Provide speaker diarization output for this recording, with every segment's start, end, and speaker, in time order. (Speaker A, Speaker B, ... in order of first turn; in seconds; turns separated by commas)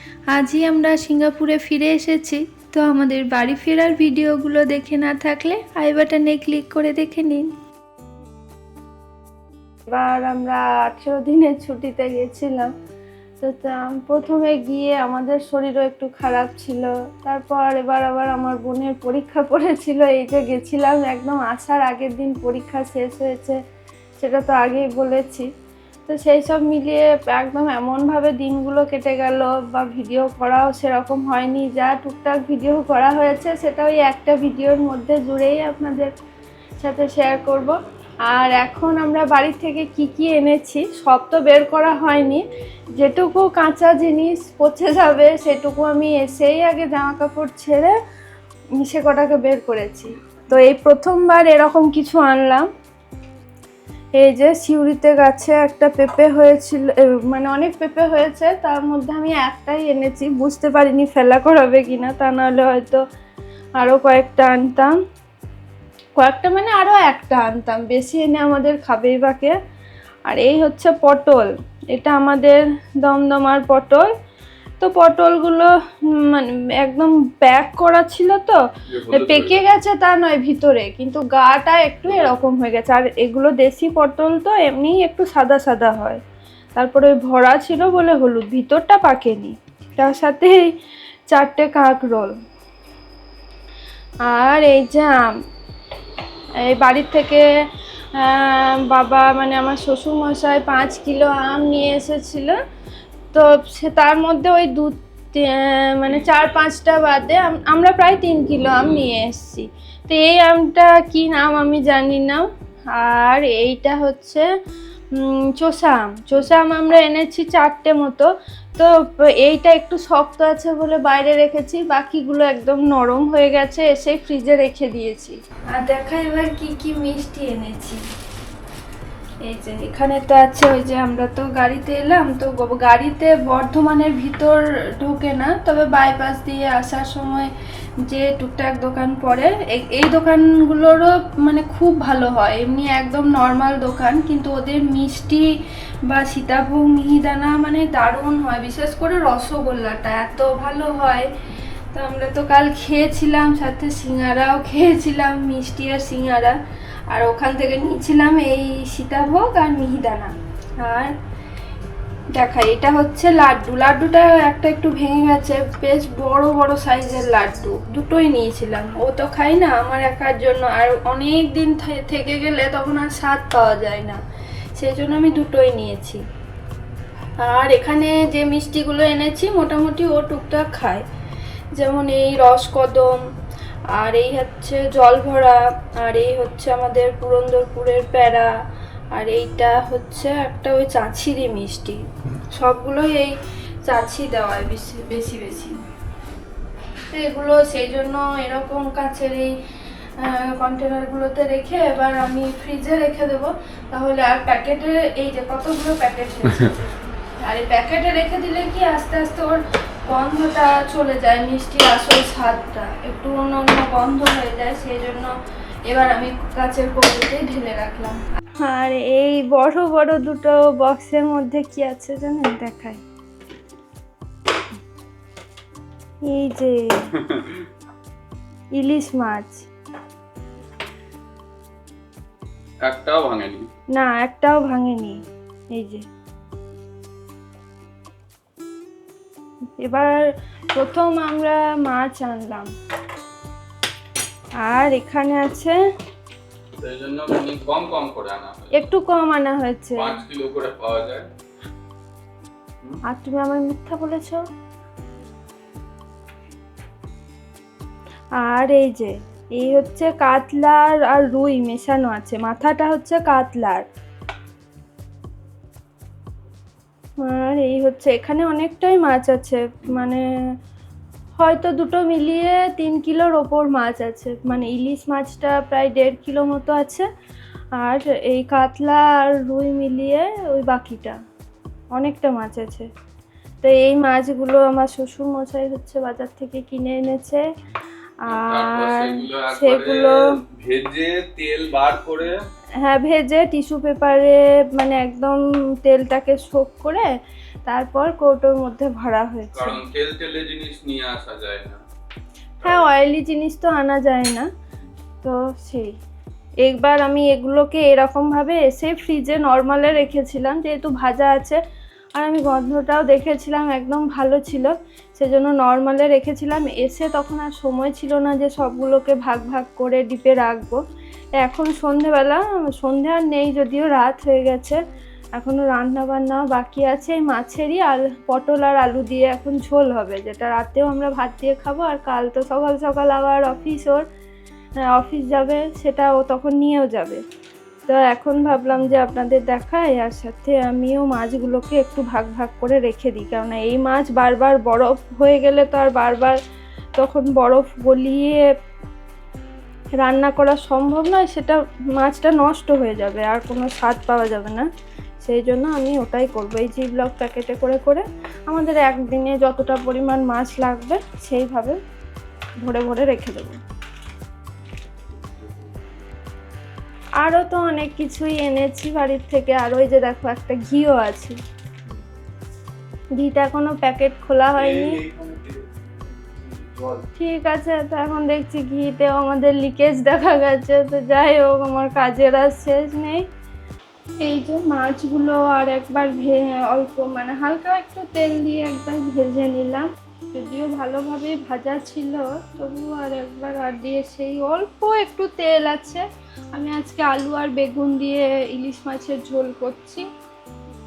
Speaker A: 0.3-7.5, Speaker A: 9.9-12.7, Speaker A: 13.4-23.6, Speaker A: 24.2-25.5, Speaker A: 26.1-36.1, Speaker A: 36.8-37.7, Speaker A: 38.3-42.4, Speaker A: 43.0-48.0, Speaker A: 48.8-52.7, Speaker A: 54.2-63.0, Speaker A: 63.8-64.9, Speaker A: 66.2-69.6, Speaker A: 70.3-74.1, Speaker A: 74.8-78.6, Speaker B: 78.9-79.6, Speaker A: 79.1-86.2, Speaker A: 86.8-90.7, Speaker A: 91.3-92.3, Speaker A: 94.2-95.3, Speaker A: 96.6-97.4, Speaker A: 98.2-102.6, Speaker A: 103.3-112.4, Speaker A: 113.0-114.5, Speaker A: 115.2-128.0, Speaker A: 129.4-137.5, Speaker A: 138.1-145.5, Speaker A: 146.1-151.3, Speaker A: 151.9-156.6, Speaker A: 157.1-161.1, Speaker A: 162.3-174.2, Speaker A: 174.8-176.2, Speaker A: 177.4-181.0, Speaker A: 181.8-183.2, Speaker A: 183.9-188.5, Speaker A: 189.1-192.0, Speaker A: 192.6-193.3, Speaker A: 193.9-195.8, Speaker A: 197.1-199.5, Speaker A: 200.2-215.3, Speaker A: 215.9-223.0, Speaker A: 226.3-227.0, Speaker B: 227.3-227.6, Speaker A: 228.8-229.7, Speaker B: 232.9-233.7, Speaker A: 233.9-235.2, Speaker A: 235.7-236.0, Speaker A: 239.8-240.2, Speaker A: 240.8-242.7, Speaker A: 244.6-245.8, Speaker B: 246.8-248.9, Speaker A: 248.8-250.1, Speaker B: 249.9-251.3, Speaker A: 253.1-254.4, Speaker A: 258.4-263.8, Speaker A: 267.2-270.2, Speaker A: 271.4-277.1, Speaker A: 277.8-281.2, Speaker A: 281.9-282.9, Speaker A: 283.6-287.4, Speaker B: 288.3-292.4, Speaker A: 288.3-290.2, Speaker A: 292.8-297.1, Speaker A: 297.6-299.8, Speaker B: 299.5-301.8, Speaker B: 302.6-302.9, Speaker A: 302.6-304.5, Speaker A: 305.2-305.9, Speaker A: 306.6-311.6, Speaker A: 312.1-320.8, Speaker A: 321.4-324.8, Speaker A: 325.4-334.0, Speaker A: 334.9-337.2, Speaker A: 337.9-346.4, Speaker A: 347.0-348.4, Speaker A: 349.9-354.6, Speaker A: 355.2-361.8, Speaker A: 362.6-363.6, Speaker A: 367.2-371.4, Speaker A: 373.2-375.0, Speaker B: 374.6-375.5, Speaker B: 376.5-377.0, Speaker A: 377.2-383.2, Speaker A: 384.2-400.1